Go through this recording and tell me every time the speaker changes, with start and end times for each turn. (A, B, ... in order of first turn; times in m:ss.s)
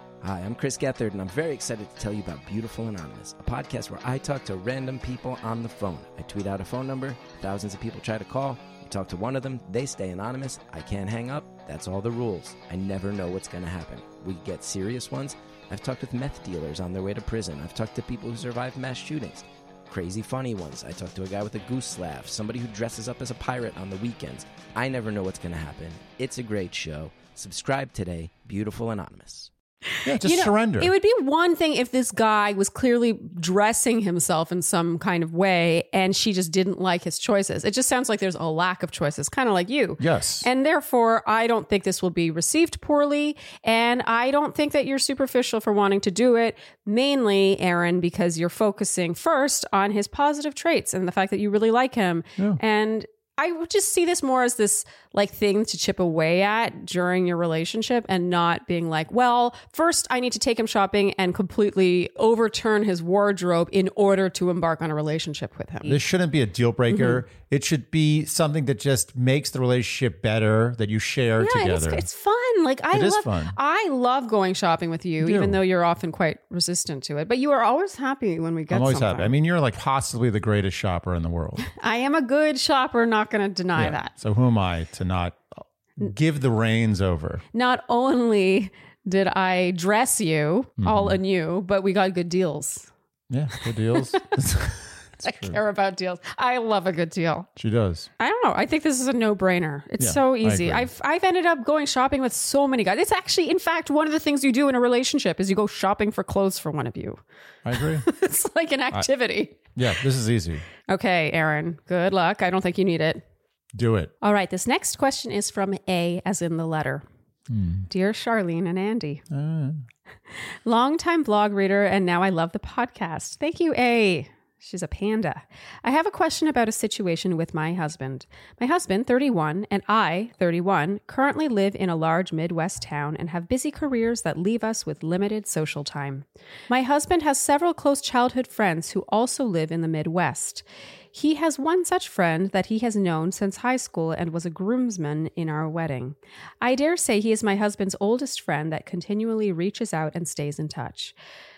0:00.2-0:29.5 A
0:30.0-0:30.9 B
0:30.1-1:06.0 C
0:40.0-0:40.5 B
1:05.8-1:12.1 B
1:06.9-1:07.2 C
1:11.4-1:19.3 C
1:12.9-1:13.6 B
1:15.2-1:15.6 B
1:18.7-1:21.6 B
1:21.6-1:24.1 C
1:23.8-1:25.4 B
1:26.0-1:27.4 B
1:27.5-1:32.9 C
1:30.8-1:31.2 B
1:33.3-1:35.6 B
1:33.6-1:34.3 C
1:35.2-1:37.5 C
1:37.6-1:38.1 B
1:38.2-1:47.2 C
1:40.0-1:40.9 B
1:47.6-1:48.1 B
1:47.7-1:49.7 C
1:49.7-1:50.6 B
1:50.9-1:53.2 C
1:53.7-1:54.1 B
1:54.2-1:57.0 C
1:57.5-1:57.9 B
1:57.9-1:59.2 C
1:59.3-1:59.8 B
2:00.6-2:31.1 C